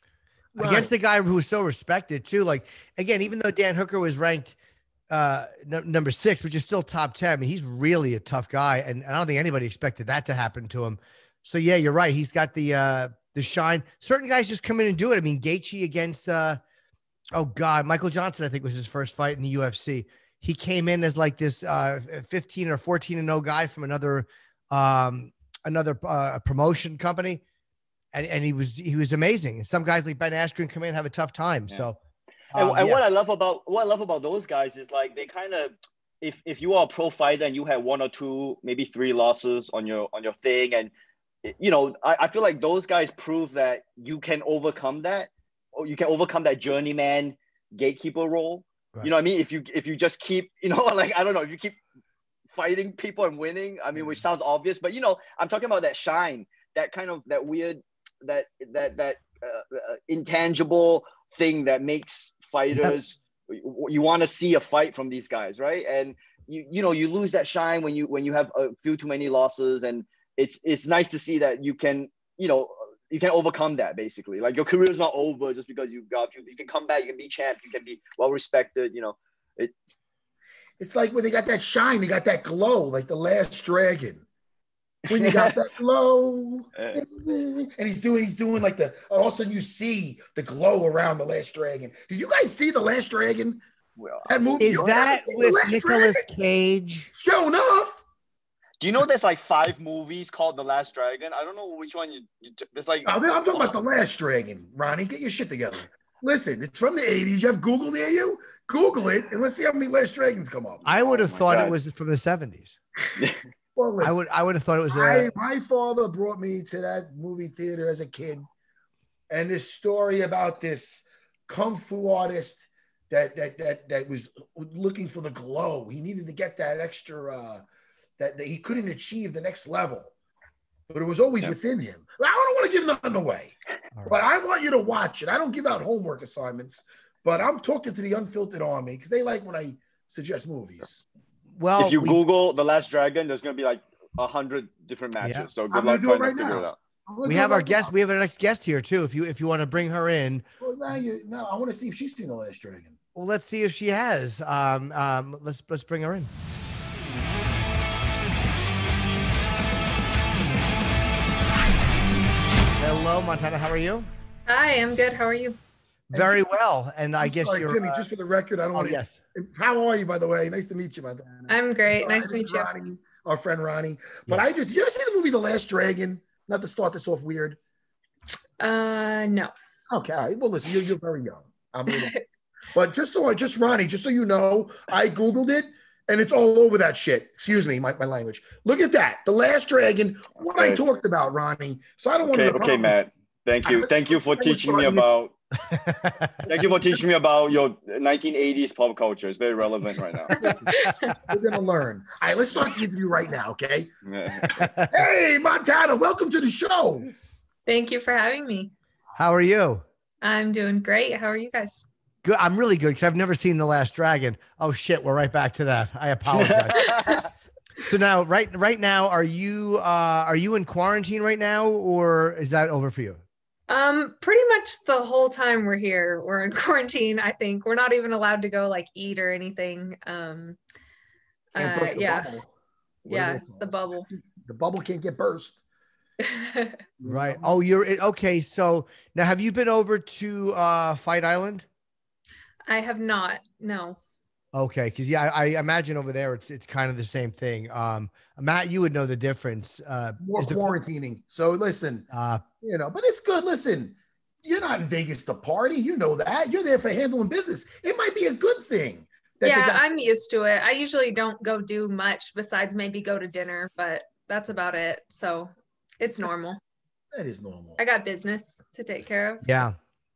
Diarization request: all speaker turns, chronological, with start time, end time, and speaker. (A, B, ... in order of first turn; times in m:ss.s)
0:00.6-0:00.9 A
0:00.6-0:04.6 B
0:05.1-0:16.6 B
0:17.3-0:27.4 B
0:28.1-0:32.0 B
0:32.5-0:33.0 B
0:32.6-0:40.9 C
0:41.4-0:51.8 C
0:52.5-1:19.7 C
1:20.8-1:24.2 A
1:25.1-1:25.6 C
1:25.1-1:33.6 A
1:26.8-1:27.0 C
1:34.0-1:34.9 C
1:34.3-1:36.2 A
1:34.6-1:37.1 B
1:37.1-1:38.0 A
1:38.8-1:43.7 C
1:43.1-1:50.8 A
1:50.8-1:51.7 C
1:50.9-1:52.8 B
1:53.8-1:54.2 A
1:54.0-1:55.3 B
1:54.9-1:58.5 A
1:59.3-2:07.6 A
2:08.2-2:10.1 A
2:10.9-2:13.6 A
2:14.0-2:14.2 B
2:14.1-2:21.0 A
2:21.6-2:22.2 B
2:21.8-2:26.8 C
2:25.2-2:25.5 B
2:25.7-2:27.9 A
2:27.2-2:30.4 B
2:30.6-2:33.0 A
2:33.2-2:36.3 B
2:42.8-2:44.1 B
2:44.5-2:45.6 D
2:46.1-2:48.0 B
2:46.1-2:46.5 A
2:47.2-2:57.6 A
2:48.8-2:49.2 B
2:51.5-2:52.7 D
2:58.6-2:59.5 D
2:59.9-3:02.1 A
3:01.9-3:02.2 D
3:02.7-3:13.0 A
3:10.6-3:10.8 C
3:12.2-3:15.4 C
3:13.6-3:15.1 A
3:15.7-3:16.4 B
3:16.5-3:20.3 C
3:16.5-3:16.9 A
3:20.3-3:21.2 D
3:20.4-3:23.9 A
3:24.0-3:24.4 C
3:24.4-3:24.9 B
3:24.9-3:27.1 A
3:27.7-3:28.7 D
3:29.2-3:29.8 B
3:30.2-3:31.9 D
3:32.2-3:36.8 B
3:36.4-3:37.3 C
3:36.8-3:37.2 D
3:37.8-3:43.2 B
3:43.7-3:50.6 D
3:51.6-3:52.3 D
3:51.6-3:52.5 A
3:53.0-3:54.1 D
3:53.1-3:55.6 A
3:56.2-3:56.8 D
3:57.0-3:57.6 A
3:57.1-4:01.7 B
4:02.7-4:04.0 D
4:04.5-4:10.7 B
4:10.2-4:12.1 A
4:12.1-4:12.4 B
4:12.6-4:19.8 A
4:19.4-4:26.6 D
4:27.1-4:27.8 A
4:27.8-4:29.5 D
4:29.4-4:29.8 B